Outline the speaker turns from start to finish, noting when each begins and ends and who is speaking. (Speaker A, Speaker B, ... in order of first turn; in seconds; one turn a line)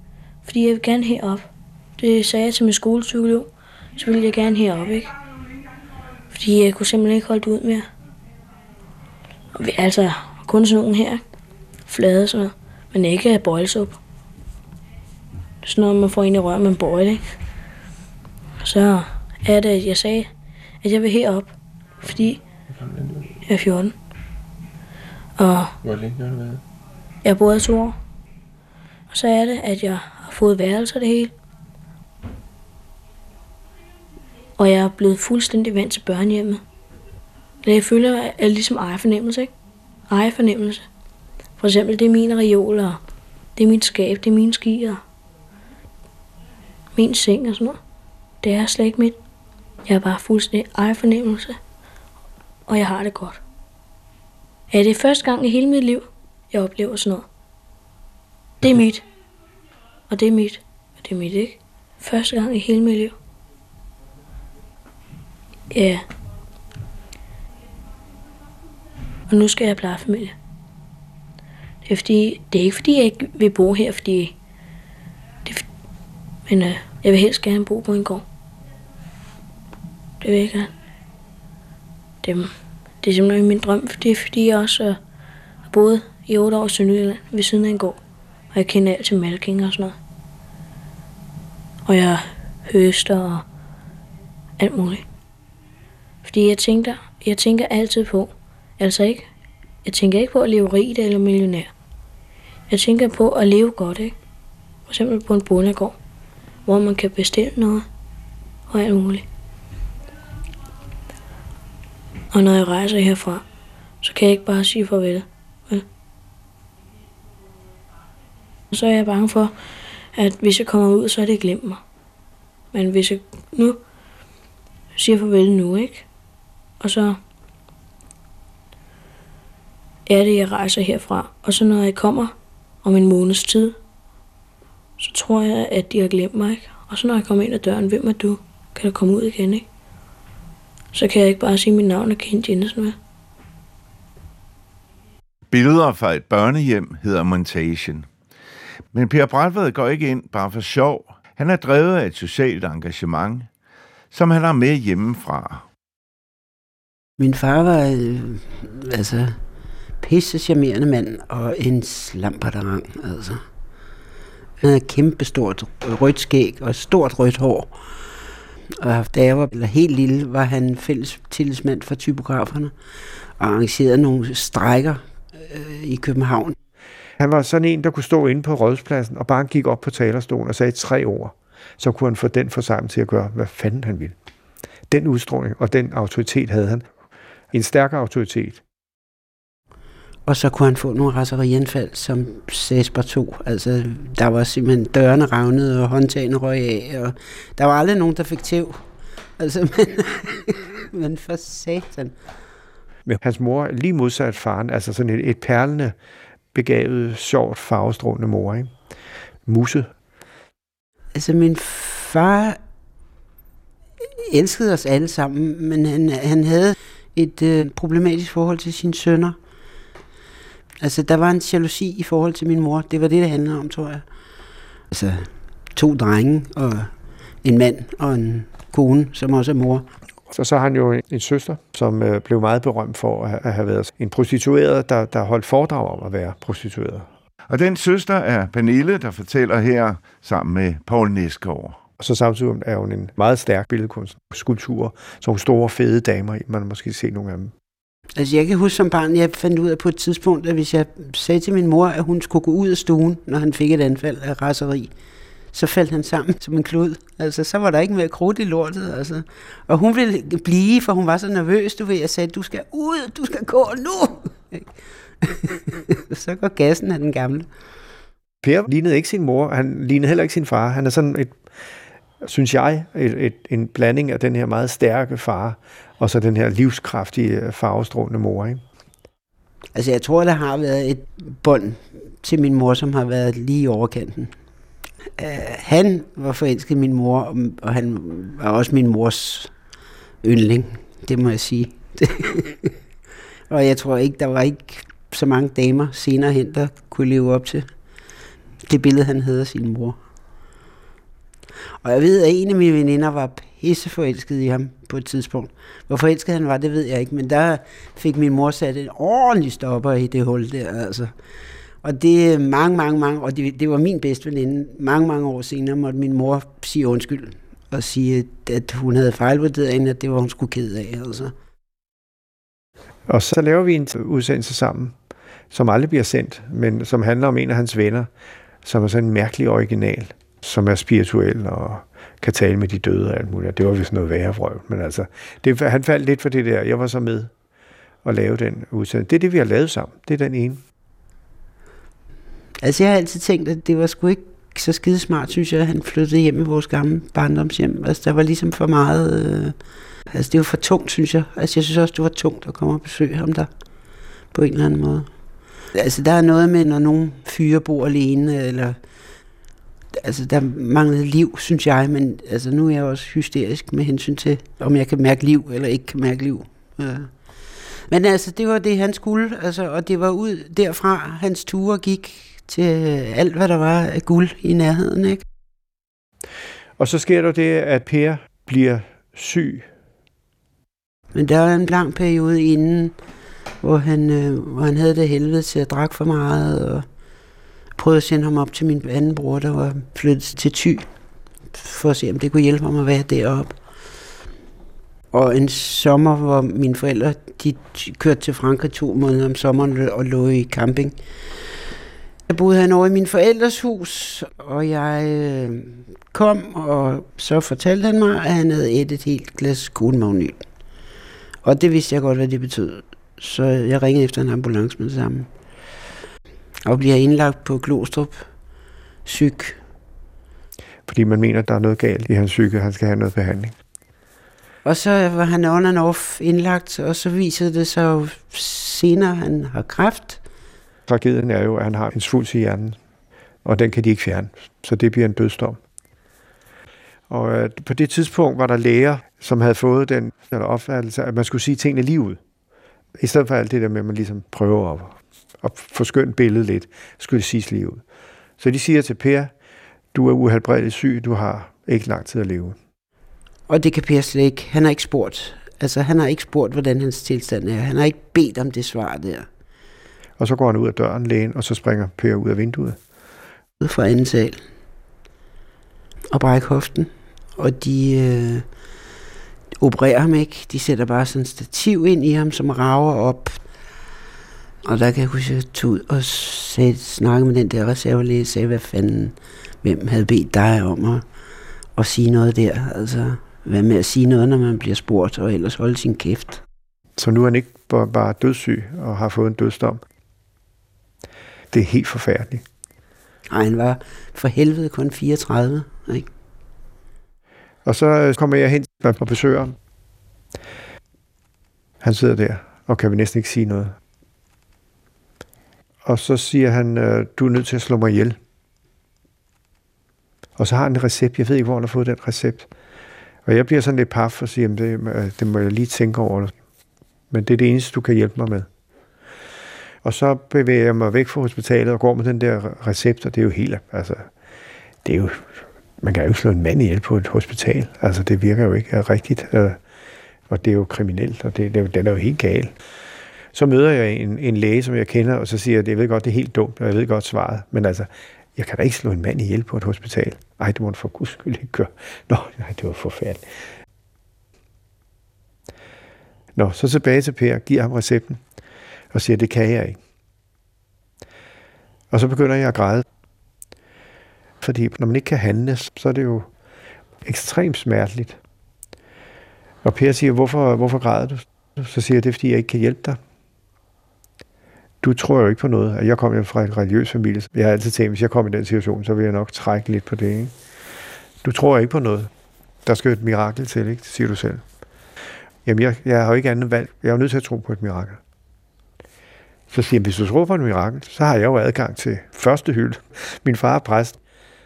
Speaker A: 0.4-5.1
Speaker A: 6.3-7.8
Speaker A: 9.6-11.2
Speaker A: 11.9-14.0
Speaker A: 15.6-17.2
Speaker A: 18.6-20.3
Speaker A: 20.8-22.4
Speaker B: 22.1-23.4
Speaker A: 23.4-23.9
Speaker A: 25.4-25.7
Speaker B: 25.8-26.6
Speaker A: 27.2-27.9
Speaker A: 29.1-31.3
Speaker A: 34.6-36.6
Speaker A: 37.6-39.5
Speaker A: 40.1-40.8
Speaker A: 41.6-43.0
Speaker A: 43.5-45.0
Speaker A: 46.9-47.8
Speaker A: 48.4-49.2
Speaker A: 49.9-51.5
Speaker A: 52.7-53.4
Speaker A: 54.7-57.2
Speaker A: 58.6-59.0
Speaker A: 60.1-63.1
Speaker A: 65.7-66.0
Speaker A: 69.3-70.3
Speaker A: 71.8-74.3
Speaker A: 76.5-78.2
Speaker A: 80.2-80.7
Speaker A: 82.2-82.5
Speaker A: 83.0-85.0
Speaker A: 85.7-88.0
Speaker A: 88.5-89.9
Speaker A: 91.8-93.4
Speaker A: 94.6-95.0
Speaker A: 96.2-99.2
Speaker A: 99.8-101.7
Speaker A: 102.7-104.1
Speaker A: 104.9-106.0
Speaker A: 106.7-107.8
Speaker A: 108.7-109.2
Speaker A: 112.3-113.4
Speaker A: 114.0-115.8
Speaker A: 118.7-119.5
Speaker A: 120.2-121.8
Speaker A: 122.7-123.8
Speaker A: 125.0-126.0
Speaker A: 126.8-127.2
Speaker A: 130.1-133.7
Speaker A: 135.0-139.6
Speaker A: 140.9-142.9
Speaker C: 145.5-148.1
Speaker C: 148.9-153.5
Speaker C: 154.1-155.6
Speaker D: 157.2-159.4
Speaker D: 160.0-163.4
Speaker D: 164.6-167.8
Speaker D: 168.8-172.7
Speaker D: 173.4-176.6
Speaker E: 177.2-184.2
Speaker E: 184.9-186.8
Speaker E: 187.5-188.6
Speaker D: 190.3-198.8
Speaker D: 199.4-202.1
Speaker E: 203.1-205.9
Speaker E: 206.5-208.7
Speaker E: 209.4-209.9
Speaker D: 211.1-212.6
Speaker D: 214.2-219.4
Speaker D: 220.8-224.0
Speaker D: 224.9-226.9
Speaker D: 227.4-229.8
Speaker E: 230.3-237.1
Speaker C: 237.5-241.8
Speaker E: 242.0-247.5
Speaker D: 248.2-254.9
Speaker D: 255.5-267.5
Speaker E: 268.4-271.4
Speaker E: 272.2-278.6
Speaker D: 279.7-284.3
Speaker D: 285.2-289.5
Speaker D: 290.2-292.7
Speaker D: 293.5-297.7
Speaker D: 298.6-300.0
Speaker D: 301.8-311.1
Speaker D: 311.8-321.3
Speaker E: 323.1-324.9
Speaker E: 325.5-328.1
Speaker E: 328.6-337.3
Speaker E: 338.0-340.6
Speaker D: 342.6-349.6
Speaker D: 350.1-353.5
Speaker D: 354.3-355.1
Speaker D: 355.7-358.8
Speaker D: 359.9-367.1
Speaker D: 367.9-375.2
Speaker E: 376.8-379.7
Speaker D: 381.1-383.0
Speaker D: 383.6-386.9
Speaker D: 387.8-390.9
Speaker D: 391.5-393.6
Speaker D: 395.1-401.0
Speaker D: 402.3-410.4
Speaker D: 411.4-415.3
Speaker D: 416.6-418.3
Speaker D: 419.0-419.6
Speaker E: 420.9-423.5
Speaker D: 424.6-430.2
Speaker E: 430.9-432.8
Speaker E: 433.4-435.6
Speaker E: 437.1-442.2
Speaker E: 443.0-447.8
Speaker E: 448.4-449.3
Speaker E: 449.9-452.6
Speaker D: 453.5-459.3
Speaker E: 460.2-462.8
Speaker D: 463.6-464.4
Speaker D: 466.1-468.4
Speaker D: 469.6-473.4
Speaker D: 474.6-481.0
Speaker D: 481.8-486.4
Speaker E: 487.0-489.8
Speaker E: 491.5-492.4
Speaker D: 493.3-496.1
Speaker E: 497.6-499.6
Speaker E: 501.8-503.8
Speaker E: 505.8-508.2
Speaker E: 510.4-512.5
Speaker E: 513.2-516.3
Speaker E: 517.1-518.5
Speaker E: 519.8-524.1
Speaker E: 524.8-529.6
Speaker E: 530.3-532.5
Speaker E: 533.3-543.2
Speaker E: 546.3-548.2
Speaker E: 548.9-549.8
Speaker E: 551.9-552.8
Speaker E: 554.4-556.3
Speaker E: 557.0-558.2
Speaker E: 559.6-563.0
Speaker E: 564.8-570.3
Speaker E: 571.2-572.1
Speaker E: 572.6-574.4
Speaker E: 575.4-578.0
Speaker E: 579.5-584.0